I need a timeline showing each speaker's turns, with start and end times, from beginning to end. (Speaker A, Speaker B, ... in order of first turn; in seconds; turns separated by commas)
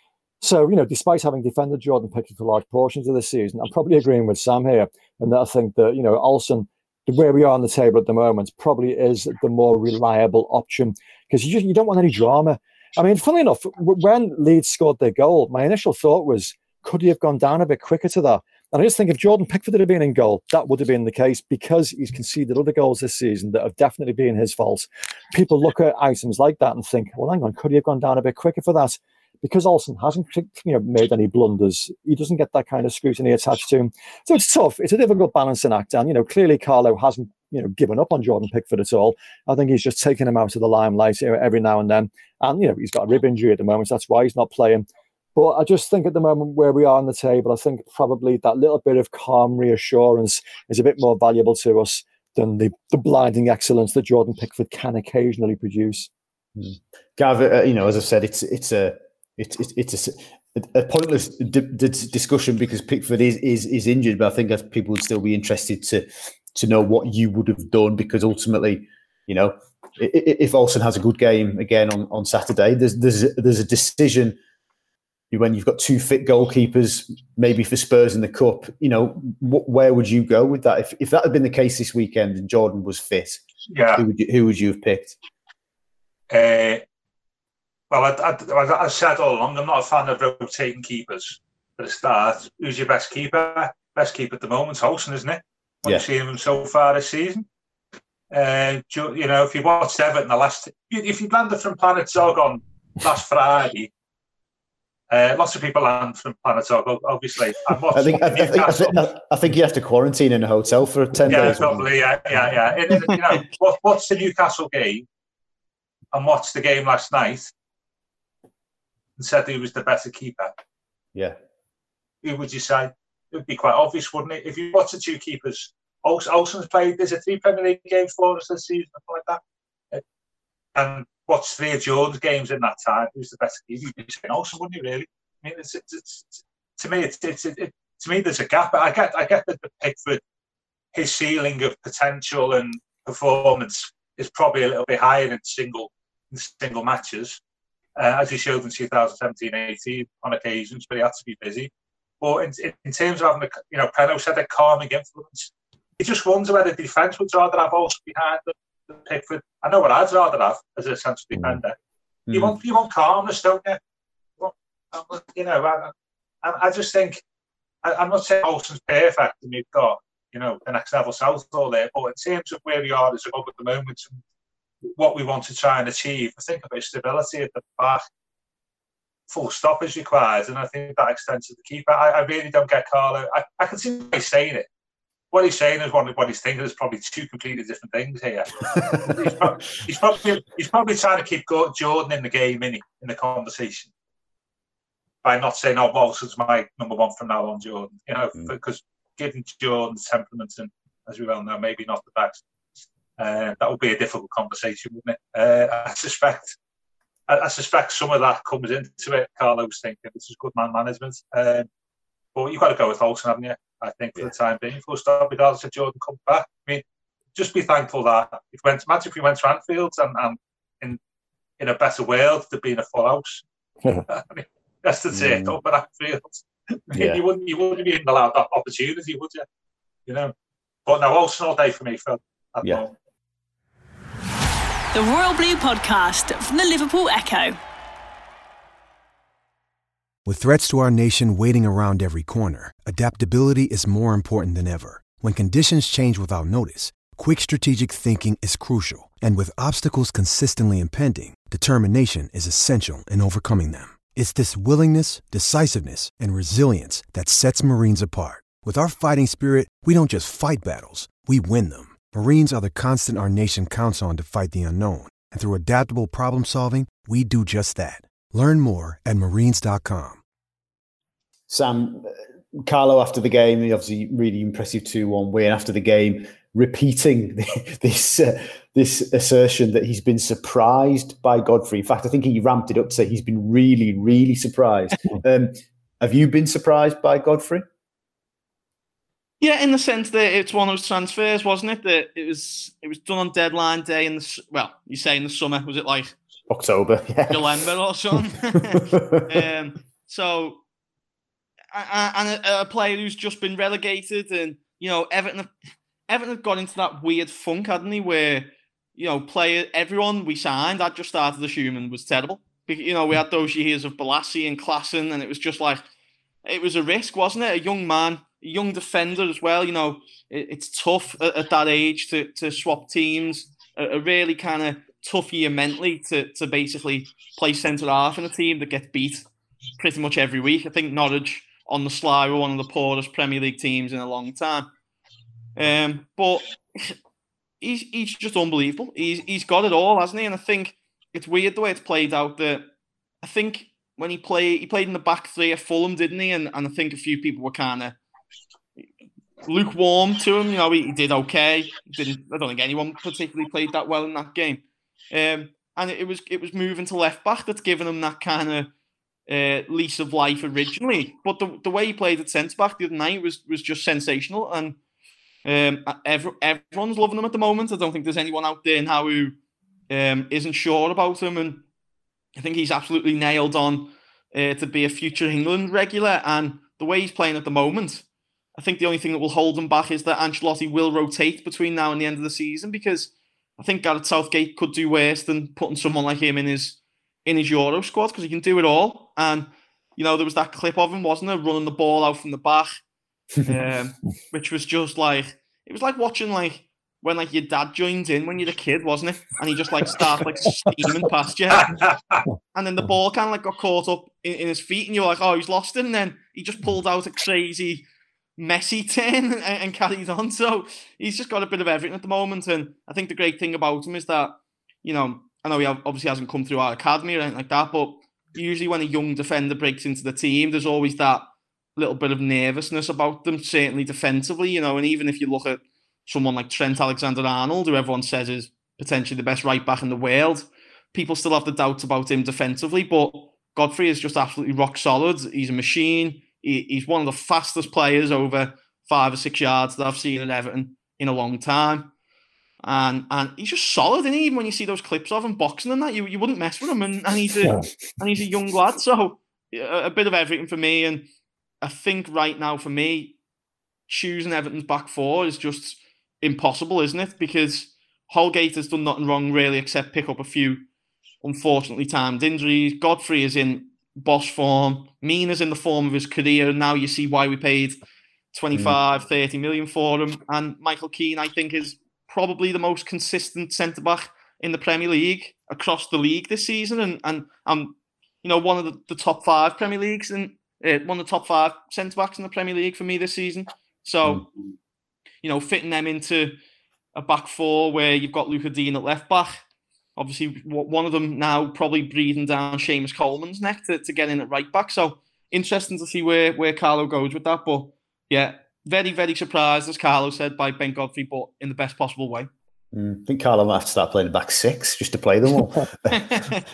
Speaker A: 0.4-56.1, Speaker B: 56.5-74.4, Speaker B: 75.3-83.4, Speaker C: 83.7-84.0, Speaker B: 84.0-85.2, Speaker C: 86.3-86.8, Speaker C: 87.9-97.5, Speaker C: 98.3-103.9, Speaker C: 105.1-109.0, Speaker B: 107.9-112.5, Speaker C: 111.2-115.0, Speaker C: 116.1-117.5, Speaker C: 119.2-120.5, Speaker C: 122.2-129.4, Speaker C: 130.7-140.2, Speaker C: 140.9-147.4, Speaker C: 147.9-161.8, Speaker B: 162.3-162.6, Speaker C: 162.3-163.8, Speaker C: 164.4-165.9, Speaker C: 166.4-167.2, Speaker C: 167.8-174.2, Speaker C: 175.0-178.0, Speaker C: 179.3-184.7, Speaker C: 185.3-193.9, Speaker C: 195.2-202.4, Speaker C: 203.2-206.6, Speaker C: 207.3-211.7, Speaker C: 212.3-216.8, Speaker C: 217.3-221.0, Speaker C: 221.6-223.4, Speaker C: 224.1-229.4, Speaker B: 225.1-225.6, Speaker B: 226.9-227.2, Speaker C: 230.1-230.3, Speaker C: 230.8-232.9, Speaker D: 234.9-237.6, Speaker E: 240.2-270.2, Speaker B: 271.5-287.6, Speaker F: 289.4-296.1, Speaker B: 296.5-297.6, Speaker F: 297.3-300.6, Speaker B: 298.6-299.4, Speaker F: 301.7-305.5, Speaker F: 306.1-315.8, Speaker F: 316.4-329.3, Speaker F: 329.8-334.7, Speaker F: 335.6-336.9, Speaker F: 337.6-342.7, Speaker F: 343.2-347.9, Speaker F: 349.4-358.7, Speaker F: 359.3-364.8, Speaker F: 365.4-369.3, Speaker F: 369.9-371.6, Speaker F: 372.4-392.8, Speaker F: 393.4-401.8, Speaker C: 401.6-402.2, Speaker F: 402.5-407.8, Speaker F: 408.4-441.9, Speaker F: 442.6-451.1, Speaker A: 447.4-447.7, Speaker F: 451.6-453.1, Speaker F: 453.9-460.6, Speaker F: 461.2-467.8, Speaker F: 468.3-484.3, Speaker F: 485.2-486.4, Speaker F: 486.9-489.4, Speaker F: 490.0-502.3, Speaker B: 502.7-506.1, Speaker F: 506.1-506.4